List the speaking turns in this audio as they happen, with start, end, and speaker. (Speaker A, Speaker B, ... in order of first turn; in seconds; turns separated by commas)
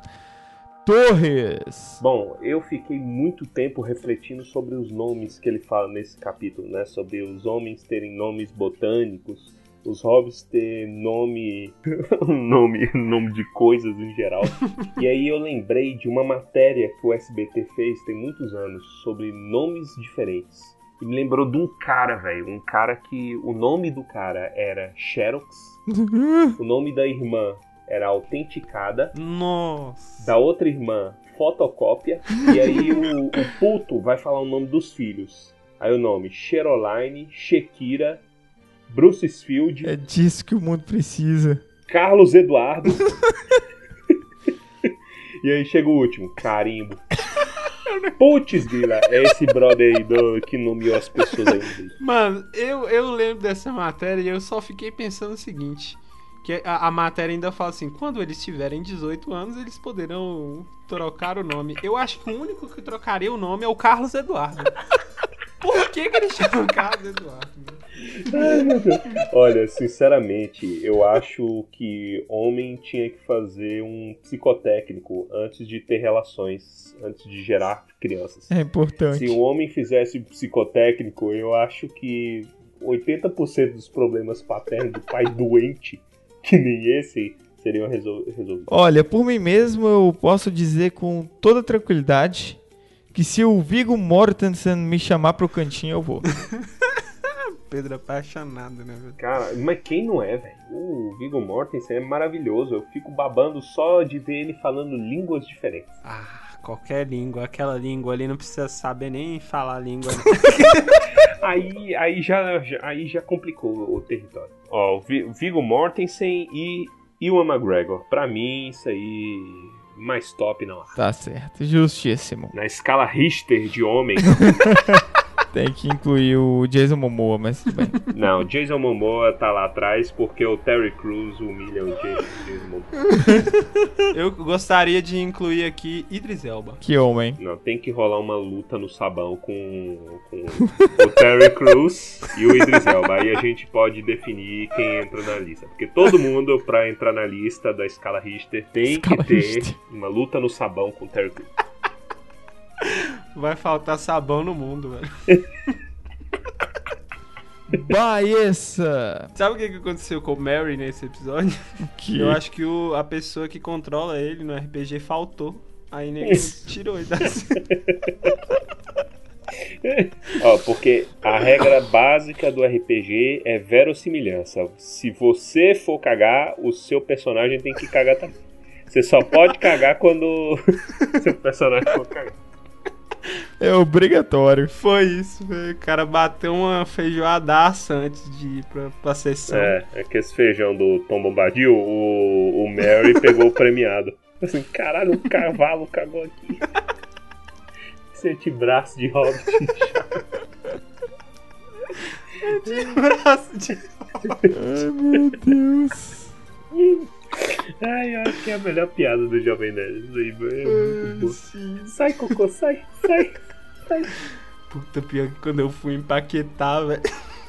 Speaker A: 0.8-2.0, Speaker B: 2.0-25.8, Speaker A: 25.9-26.6, Speaker B: 26.6-29.1, Speaker C: 29.1-30.3, Speaker B: 30.2-38.2, Speaker B: 38.9-39.9, Speaker A: 39.8-41.6, Speaker B: 41.9-43.2, Speaker B: 44.8-47.1, Speaker B: 48.2-52.0, Speaker C: 52.0-64.8, Speaker C: 65.6-68.3, Speaker B: 68.2-78.5, Speaker A: 78.5-79.4, Speaker B: 79.1-88.7, Speaker A: 88.7-92.6, Speaker A: 93.1-96.3, Speaker C: 96.6-99.2, Speaker B: 99.2-106.0, Speaker C: 106.0-111.0, Speaker B: 111.2-121.0, Speaker A: 121.0-122.5, Speaker B: 122.5-124.8, Speaker A: 124.4-125.0, Speaker A: 125.5-128.0, Speaker B: 128.1-133.1, Speaker C: 134.1-136.8, Speaker A: 136.8-137.4, Speaker B: 137.4-151.5, Speaker A: 148.9-149.8, Speaker C: 152.8-155.4, Speaker A: 157.7-159.3, Speaker C: 159.4-167.7, Speaker A: 161.9-162.4, Speaker B: 167.7-168.3, Speaker B: 169.7-182.4, Speaker A: 183.6-184.7, Speaker C: 184.8-189.8, Speaker B: 189.5-196.7, Speaker B: 198.1-200.2, Speaker C: 202.4-204.5, Speaker A: 204.5-206.3, Speaker B: 206.7-214.1, Speaker C: 210.7-211.9, Speaker C: 214.7-217.1